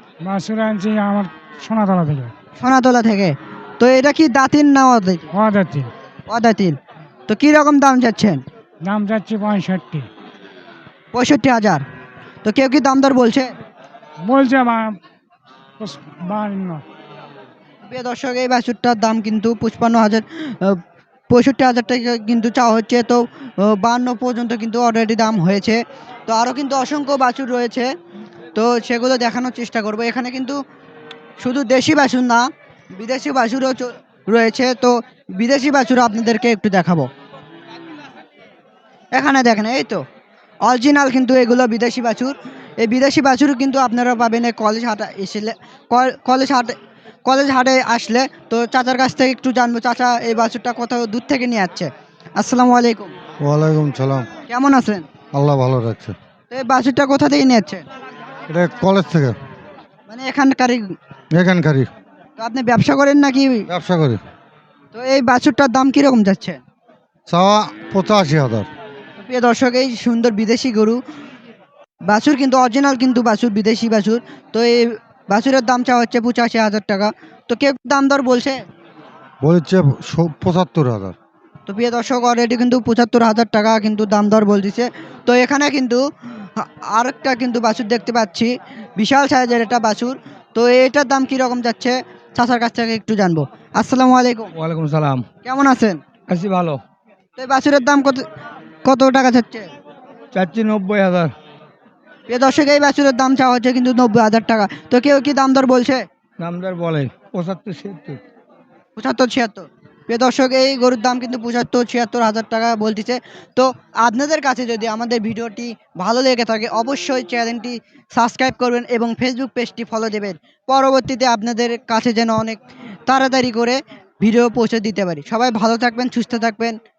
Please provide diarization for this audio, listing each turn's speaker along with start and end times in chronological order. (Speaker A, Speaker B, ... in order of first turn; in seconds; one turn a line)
Speaker A: 0.2-2.3
Speaker B: 2.6-5.3
Speaker A: 5.3-5.9
Speaker B: 6.3-6.8
Speaker B: 7.3-8.4
Speaker A: 8.9-10.1
Speaker B: 11.1-11.8
Speaker B: 12.4-13.5
Speaker A: 14.2-15.0
Speaker A: 15.8-16.8
Speaker B: 17.9-20.8
Speaker B: 21.3-27.9
Speaker B: 28.6-30.6
Speaker B: 31.4-37.1
Speaker B: 39.1-40.0
Speaker B: 40.7-46.8
Speaker B: 47.3-53.1
Speaker C: 53.4-54.3
Speaker B: 54.5-55.1
Speaker C: 55.3-56.2
Speaker B: 56.5-57.8
Speaker C: 58.5-59.4
Speaker B: 60.1-60.9
Speaker C: 61.3-61.9
Speaker B: 62.4-63.7
Speaker C: 63.7-64.2
Speaker B: 64.9-66.6
Speaker C: 67.3-68.7
Speaker B: 69.2-71.0
Speaker B: 72.1-78.6
Speaker C: 79.4-81.2
Speaker B: 81.7-86.0
Speaker B: 86.6-94.5
Speaker D: 94.6-95.2
Speaker B: 95.4-96.0
Speaker D: 96.3-96.8
Speaker B: 97.4-98.2
Speaker B: 98.9-99.7
Speaker D: 100.3-101.3
Speaker B: 102.3-106.0
Speaker D: 106.4-108.2
Speaker B: 109.0-126.8